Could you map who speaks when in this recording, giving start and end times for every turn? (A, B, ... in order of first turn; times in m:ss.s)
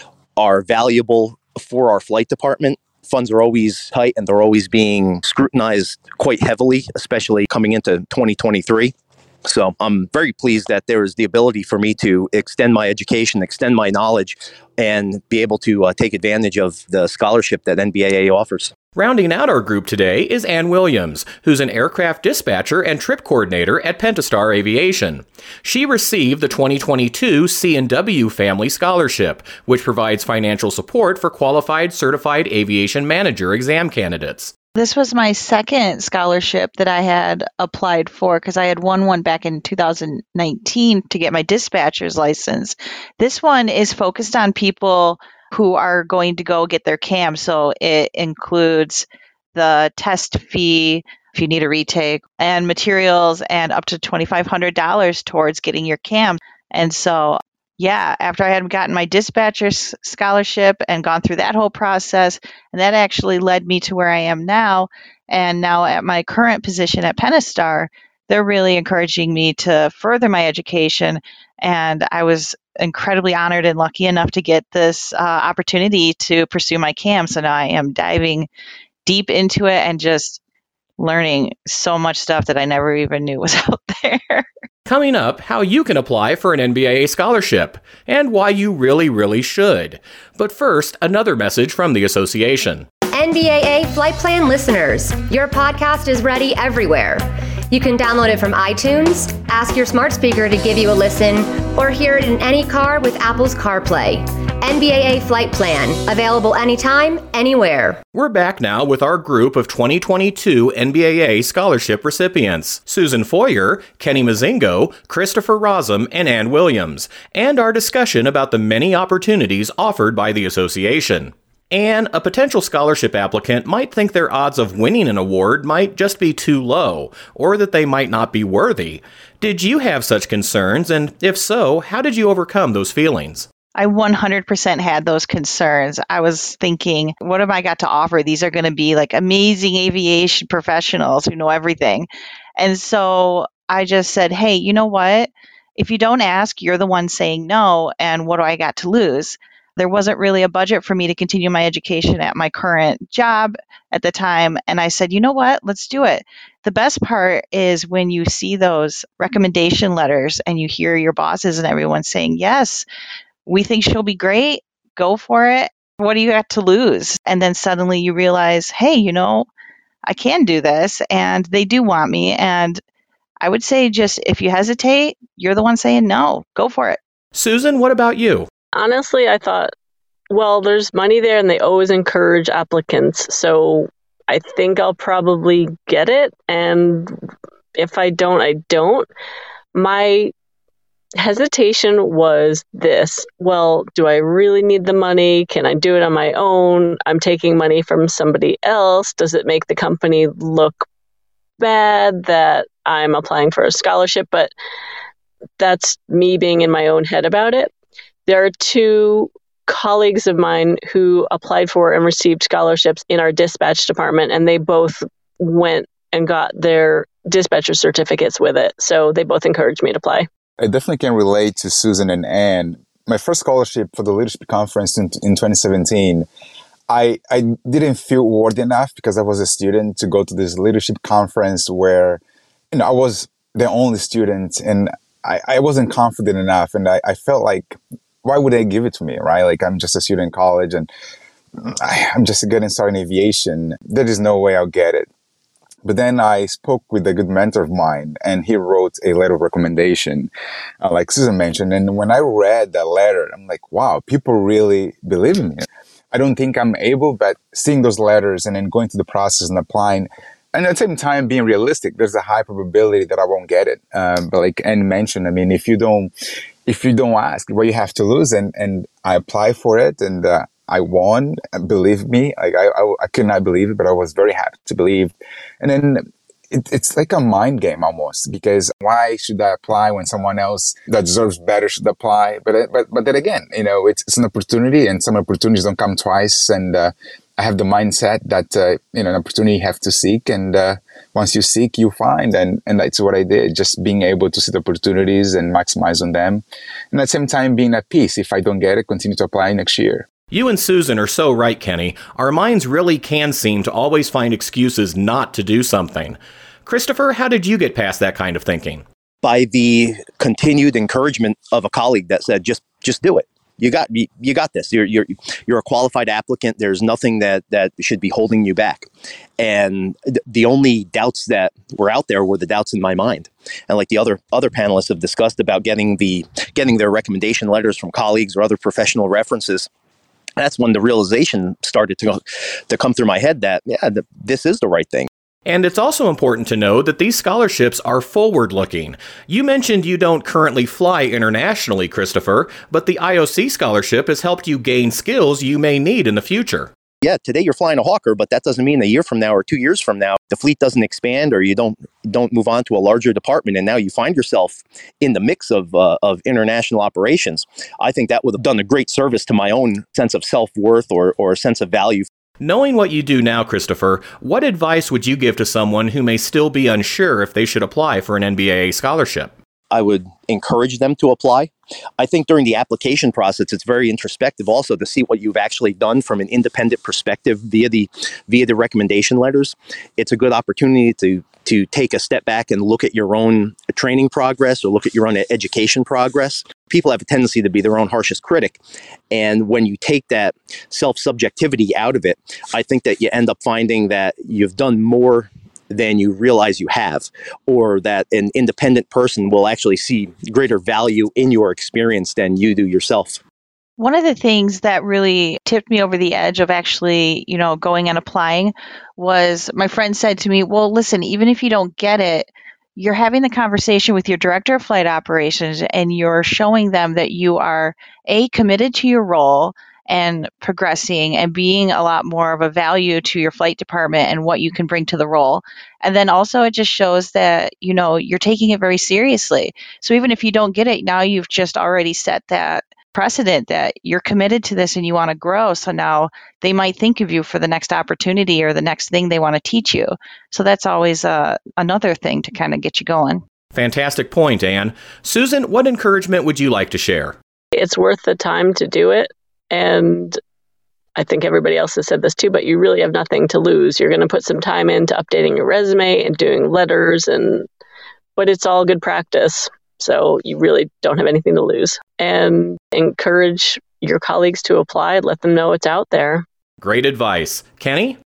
0:00.4-0:08.9 A
0:09.4-0:18.7 A
0:18.9-0:34.5 B
0:34.8-1:18.5 C
1:19.0-1:20.4 C
1:21.0-1:24.4 C
1:24.9-1:32.8 B
1:33.1-1:48.0 D
1:48.1-2:13.5 B
2:13.8-2:42.8 C
2:43.4-2:49.5 C
2:50.0-2:52.8 C
2:53.4-2:57.0 C
2:57.3-2:58.5 B
2:58.7-2:59.7 E
3:00.3-3:07.1 E
3:07.8-3:09.1 E
3:09.7-3:10.3 E
3:11.2-3:20.8 E
3:21.6-3:24.5 E
3:25.6-3:27.7 E
3:28.3-3:40.3 E
3:40.6-3:46.3 F
3:46.9-3:52.2 F
3:52.7-4:00.9 F
4:01.6-4:05.1 F
4:05.8-4:26.1 F
4:26.6-5:00.0 F
5:00.3-5:08.8 B
5:09.2-5:18.9 A
5:19.4-5:29.7 A
5:30.4-5:35.1 A
5:35.4-5:46.7 B
5:47.0-6:02.1 A
6:02.4-6:09.3 B
6:09.7-6:28.6 A
6:29.1-6:43.2 A
6:43.8-7:23.2 C
7:23.5-7:27.2 B
7:27.5-7:30.2 E
7:31.0-7:37.4 E
7:38.2-7:46.2 E
7:46.6-7:48.0 B